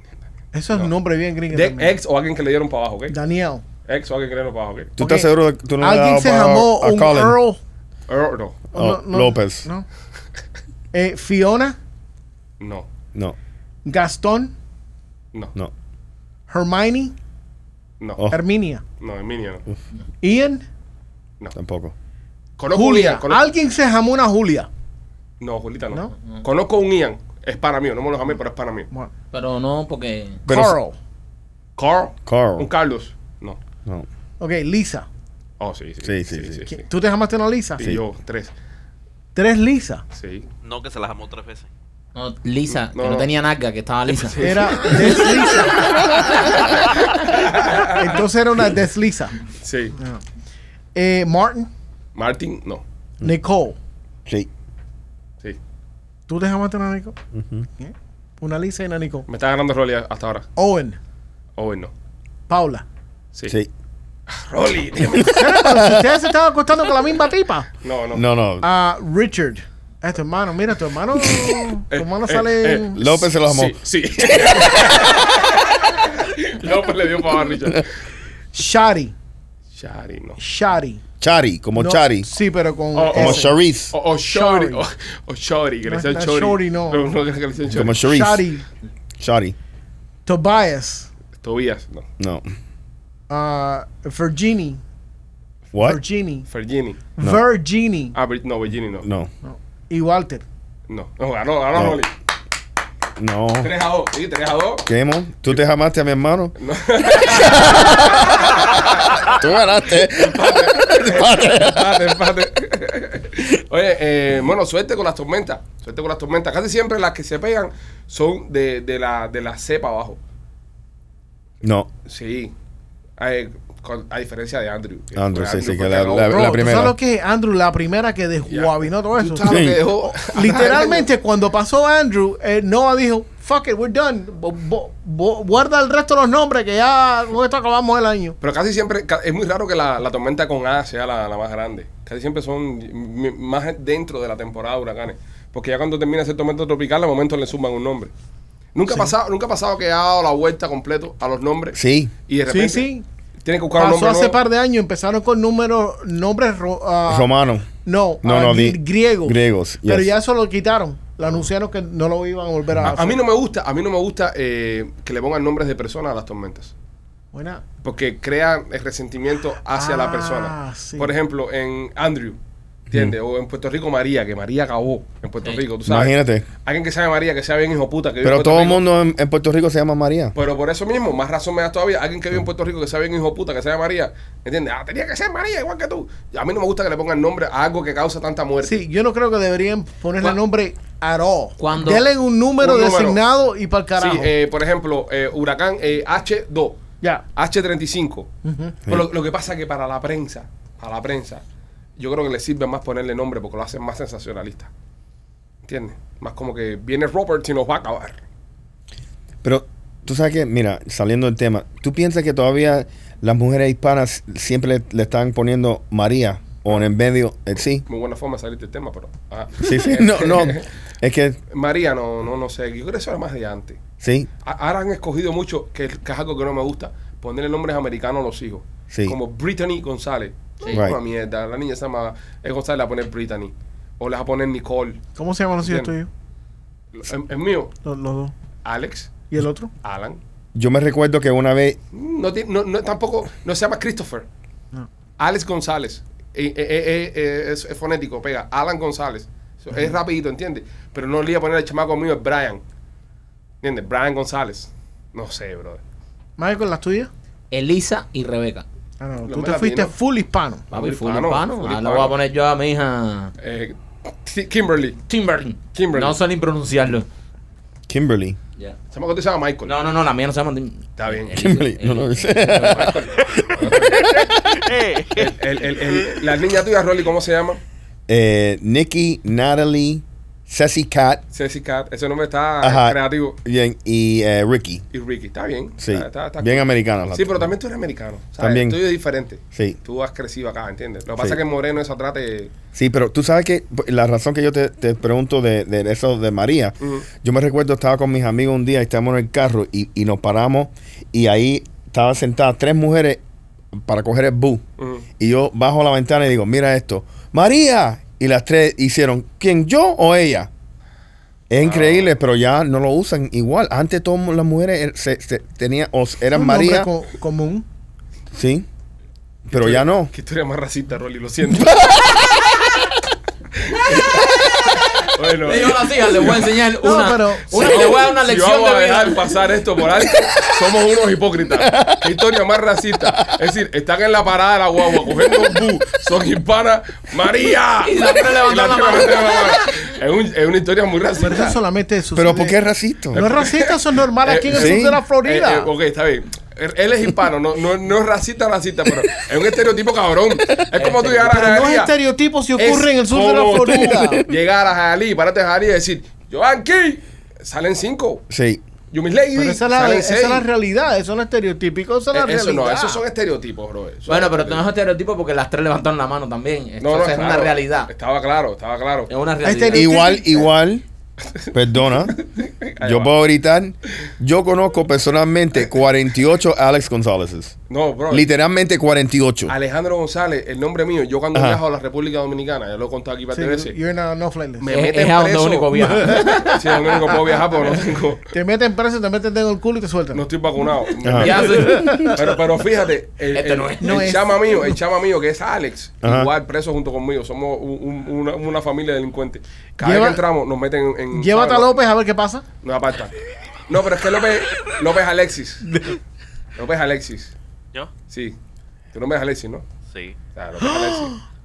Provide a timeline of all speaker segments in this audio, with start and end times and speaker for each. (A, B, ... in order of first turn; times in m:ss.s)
0:00.5-0:02.0 A
0:01.5-0:03.2 B
0:03.1-0:03.6 A
0:03.8-0:05.0 B
0:05.0-0:07.4 C
0:05.0-0:07.6 A
0:08.1-0:08.6 B
0:08.7-0:09.9 A
0:08.7-0:09.7 C
0:10.9-0:11.8 A
0:12.6-0:12.9 B
0:13.8-0:14.5 A
0:16.5-0:17.1 A
0:18.0-0:18.3 B
0:18.3-0:18.8 A
0:19.0-0:19.6 B
0:20.2-0:20.6 A
0:21.6-0:21.9 C
0:22.6-0:23.5 B
0:22.7-0:24.7 A
0:25.4-0:28.9 B
0:29.3-0:30.4 D
0:30.5-0:30.8 C
0:30.5-0:31.0 A
0:31.8-0:33.6 B
0:32.3-0:32.7 C
0:34.4-0:35.1 A
0:35.6-0:36.8 B
0:36.0-0:36.6 C
0:36.7-0:37.9 A
0:37.8-0:38.5 B
0:39.4-0:40.0 A
0:40.1-0:40.5 B
0:40.6-0:41.7 E
0:42.2-0:44.5 D
0:42.7-0:43.3 B
0:44.1-0:45.4 B
0:44.4-0:46.0 A
0:47.1-0:48.2 B
0:48.0-0:50.2 A
0:49.6-0:50.0 B
0:51.0-0:51.7 A
0:52.2-0:52.8 B
0:53.2-0:53.8 A
0:56.3-0:57.2 A
0:57.3-0:57.7 C
0:57.8-0:59.3 A
0:59.3-1:00.5 B
1:00.6-1:01.0 A
1:01.6-1:01.9 B
1:02.5-1:02.8 A
1:04.3-1:05.5 B
1:05.1-1:06.1 C
1:05.3-1:07.7 A
1:07.8-1:08.2 B
1:08.2-1:08.7 C
1:08.6-1:13.0 A
1:11.9-1:17.9 B
1:13.0-1:15.2 C
1:18.5-1:19.1 A
1:19.7-1:20.4 B
1:20.4-1:21.0 A
1:21.2-1:22.3 C
1:21.8-1:23.5 A
1:22.9-1:28.0 B
1:23.1-1:23.9 C
1:24.2-1:24.8 A
1:25.9-1:27.1 A
1:27.7-1:28.5 C
1:28.0-1:28.6 A
1:29.2-1:29.6 C
1:30.3-1:31.1 A
1:31.4-1:32.1 B
1:32.2-1:32.5 C
1:33.3-1:34.8 A
1:35.7-1:36.0 C
1:35.8-1:36.5 A
1:36.5-1:37.0 B
1:37.2-1:38.2 A
1:38.1-1:39.1 B
1:39.0-1:39.3 C
1:39.4-1:40.4 A
1:40.9-1:42.1 B
1:43.2-1:43.7 C
1:43.6-1:44.9 B
1:44.9-1:46.5 C
1:46.6-1:49.4 B
1:47.2-1:52.2 C
1:49.9-2:00.2 B
2:01.6-2:01.9 C
2:02.1-2:02.5 B
2:03.2-2:06.5 B
2:05.2-2:07.0 C
2:06.3-2:09.6 A
2:08.5-2:11.1 B
2:09.4-2:09.9 C
2:10.2-2:18.4 A
2:18.4-2:28.1 B
2:28.8-2:32.9 B
2:31.8-2:32.1 C
2:32.5-2:33.1 A
2:33.4-2:34.4 B
2:33.8-2:37.3 A
2:37.1-2:37.7 C
2:37.8-2:43.2 A
2:38.2-2:40.1 C
2:42.8-2:46.7 B
2:47.3-2:47.6 A
2:47.8-2:52.4 B
2:49.7-2:51.1 A
2:52.9-2:58.8 B
2:55.9-2:56.5 C
2:58.2-3:00.4 C
3:00.4-3:08.8 B
3:08.6-3:14.3 A
3:11.6-3:12.0 D
3:12.6-3:13.2 B
3:14.0-3:16.8 B
3:17.4-3:18.3 B
3:18.4-3:18.8 A
3:18.9-3:21.4 B
3:22.0-3:24.7 B
3:25.6-3:28.2 B
3:29.4-3:37.8 C
3:37.8-3:40.7 B
3:39.6-3:41.4 C
3:41.5-3:43.8 B
3:44.0-3:44.3 C
3:44.4-3:55.0 B
3:48.9-3:49.2 C
3:50.7-3:51.0 C
3:55.2-3:56.1 A
3:55.6-3:55.9 B
3:56.9-3:57.7 B
3:57.8-3:58.3 A
3:58.6-3:59.2 B
3:59.3-3:59.7 A
3:59.8-4:00.2 B
4:00.6-4:01.8 C
4:01.9-4:04.3 B
4:05.2-4:12.6 B
4:13.6-4:15.8 B
4:16.4-4:17.1 A
4:17.5-4:18.6 D
4:19.0-4:20.7 A
4:19.2-4:19.9 B
4:20.7-4:22.2 B
4:20.7-4:23.3 D
4:23.4-4:25.0 B
4:25.1-4:27.1 D
4:25.7-4:26.2 B
4:27.9-4:28.4 C
4:28.9-4:29.8 B
4:29.6-4:33.1 D
4:31.0-4:31.5 B
4:31.4-4:33.8 C
4:33.6-4:34.1 B
4:33.9-4:35.4 E
4:35.2-4:37.6 B
4:38.1-4:41.2 C
4:41.3-4:43.4 B
4:42.6-4:44.8 C
4:44.9-4:52.5 B
4:45.8-4:47.5 C
4:48.4-4:48.8 C
4:52.7-5:03.2 C
4:56.8-4:57.1 B
5:03.8-5:04.6 C
5:04.8-5:05.0 B
5:05.2-5:10.5 C
5:11.5-5:16.9 C
5:11.6-5:12.1 B
5:16.3-5:17.7 A
5:18.3-5:18.7 C
5:19.5-5:20.1 C
5:19.5-5:22.0 B
5:21.7-5:22.3 C
5:23.6-5:24.3 B
5:25.0-5:26.5 B
5:25.4-5:29.3 D
5:26.8-5:27.8 A
5:27.5-5:41.6 B
5:31.6-5:32.0 C
5:37.8-5:39.6 D
5:41.2-5:42.6 A
5:42.1-5:43.2 C
5:43.1-5:51.9 B
5:43.1-5:45.7 A
5:44.5-5:45.0 C
5:50.7-5:51.5 D
5:51.3-5:54.2 A
5:52.6-5:58.2 B
5:58.3-5:58.6 C
5:58.9-6:00.5 B
5:59.3-6:03.0 A
6:02.1-6:04.6 B
6:04.1-6:07.9 D
6:06.8-6:09.1 B
6:09.1-6:10.0 D
6:09.4-6:10.5 A
6:09.7-6:10.8 C
6:11.5-6:12.2 C
6:12.0-6:13.1 B
6:12.8-6:17.6 C
6:17.7-6:18.3 B
6:18.1-6:19.6 C
6:19.5-6:23.8 B
6:21.3-6:21.6 C
6:23.3-6:24.7 A
6:24.6-6:28.3 B
6:24.7-6:26.6 D
6:28.3-6:30.3 A
6:30.1-6:41.8 B
6:31.0-6:32.1 C
6:31.2-6:32.1 D
6:31.6-6:32.2 A
6:33.3-6:34.2 D
6:33.8-6:34.7 A
6:36.0-6:36.3 C
6:39.8-6:40.2 A
6:41.1-6:42.5 A
6:42.6-6:43.1 B
6:43.7-6:45.7 B
6:45.7-6:46.0 A
6:46.6-6:47.3 B
6:48.1-6:48.4 B
6:48.9-6:49.6 B
6:49.9-6:50.2 E
6:50.3-6:51.2 B